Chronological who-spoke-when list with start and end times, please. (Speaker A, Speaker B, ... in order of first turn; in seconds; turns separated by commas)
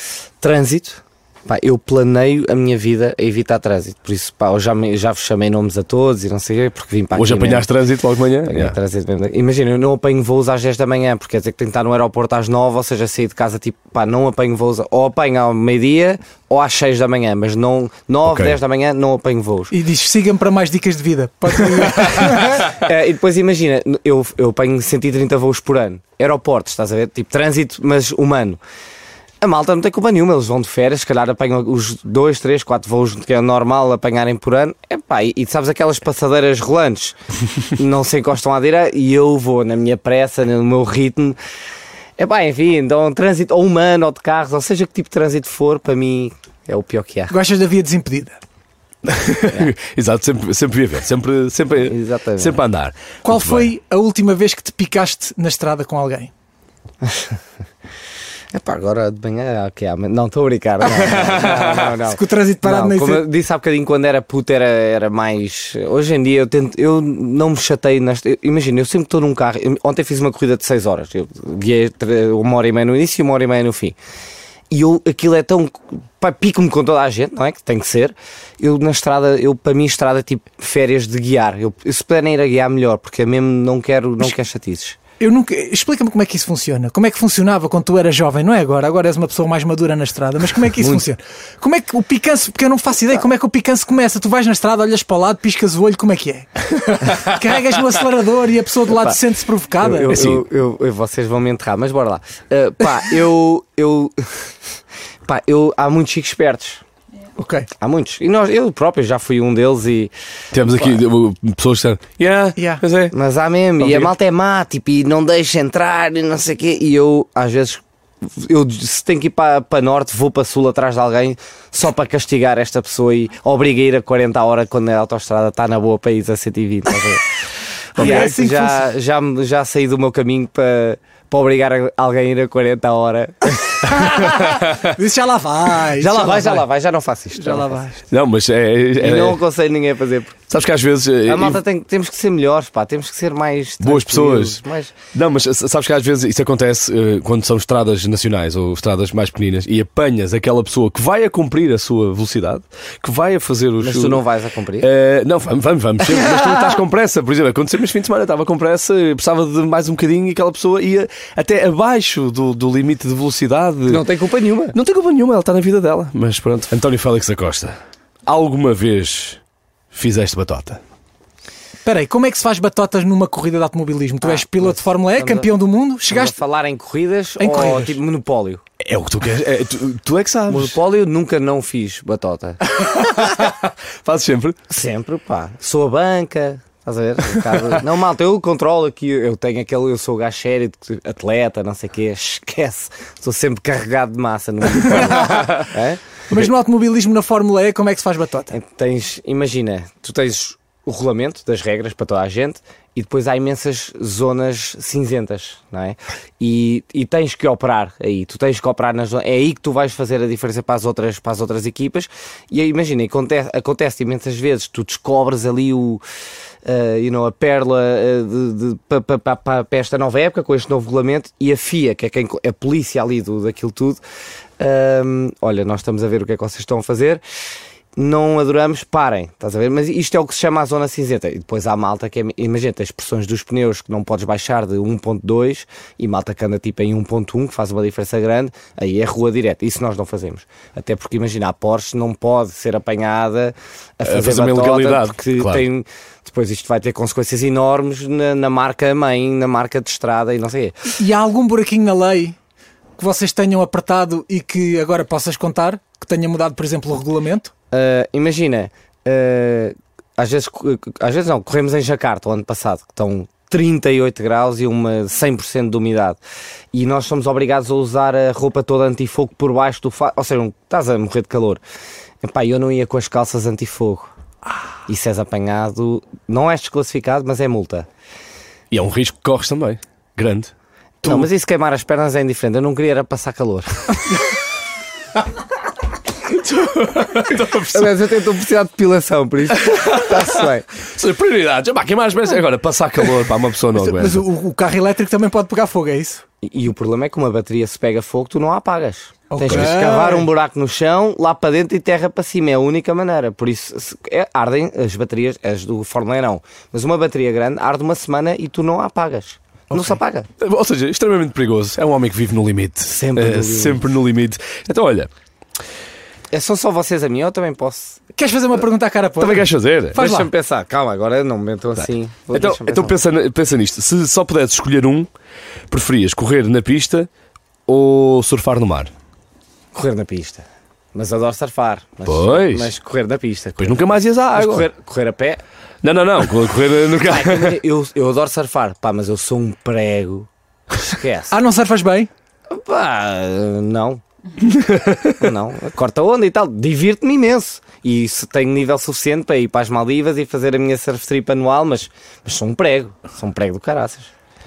Speaker A: 0.4-7.7, Speaker B: 7.1-8.8, Speaker A: 8.5-19.7, Speaker B: 18.2-18.6, Speaker C: 19.7-22.6, Speaker A: 22.2-28.6, Speaker A: 29.4-37.2, Speaker A: 37.8-41.4, Speaker A: 42.2-47.3, Speaker C: 47.3-48.4, Speaker B: 49.0-53.7, Speaker A: 51.8-52.6, Speaker C: 53.2-56.3, Speaker A: 57.0-57.4, Speaker A: 58.5-74.0, Speaker B: 61.1-61.7, Speaker C: 61.2-63.2, Speaker A: 74.7-85.0, Speaker C: 85.2-100.1, Speaker A: 98.9-99.2, Speaker A: 99.8-104.3, Speaker B: 100.0-100.4, Speaker A: 105.2-106.8, Speaker C: 107.4-107.7, Speaker A: 107.8-110.1, Speaker B: 110.5-113.1, Speaker C: 112.6-112.8, Speaker A: 113.1-127.2, Speaker B: 113.8-114.1, Speaker A: 128.0-134.2, Speaker B: 128.0-128.3, Speaker C: 128.0-128.8, Speaker C: 134.0-136.6, Speaker B: 134.4-134.7, Speaker A: 136.0-137.8, Speaker C: 137.4-138.0, Speaker B: 138.1-139.4, Speaker A: 139.0-140.3, Speaker B: 140.5-141.6, Speaker A: 141.2-144.9, Speaker B: 143.8-144.6, Speaker B: 145.1-154.2, Speaker A: 153.8-154.9, Speaker B: 154.8-164.0, Speaker A: 163.9-164.7, Speaker B: 164.7-169.4, Speaker B: 169.9-170.8, Speaker C: 171.8-176.3, Speaker A: 174.2-175.5, Speaker A: 176.1-178.6, Speaker C: 177.4-178.0, Speaker B: 178.8-180.8, Speaker A: 180.5-182.6, Speaker B: 182.7-184.6, Speaker A: 184.7-196.0, Speaker C: 194.9-195.6, Speaker C: 196.3-198.5, Speaker A: 198.5-216.0, Speaker A: 216.6-224.0, Speaker A: 224.6-227.2, Speaker A: 227.9-250.9, Speaker B: 244.0-245.6, Speaker C: 250.9-252.3, Speaker C: 253.0-257.5, Speaker A: 257.7-266.2, Speaker A: 266.7-271.6, Speaker A: 272.2-274.1, Speaker A: 274.9-277.9, Speaker B: 278.7-280.5, Speaker B: 281.0-281.3, Speaker A: 281.0-283.9, Speaker B: 286.3-288.0, Speaker A: 287.7-290.6, Speaker B: 289.6-290.4, Speaker B: 290.9-294.2, Speaker C: 293.7-296.2, Speaker A: 296.4-310.3, Speaker C: 299.3-300.3, Speaker B: 299.4-299.7, Speaker B: 310.4-315.1, Speaker A: 312.9-313.9, Speaker A: 316.3-318.0, Speaker C: 318.1-320.3, Speaker B: 319.2-320.0, Speaker A: 319.9-322.9, Speaker B: 322.3-325.1, Speaker B: 325.7-327.1, Speaker B: 327.7-328.9, Speaker A: 329.7-335.4, Speaker B: 332.1-332.7, Speaker B: 333.6-334.7, Speaker B: 335.8-337.6, Speaker A: 337.0-341.4, Speaker C: 341.3-342.1, Speaker A: 342.5-344.0, Speaker B: 344.4-345.2, Speaker A: 345.2-354.1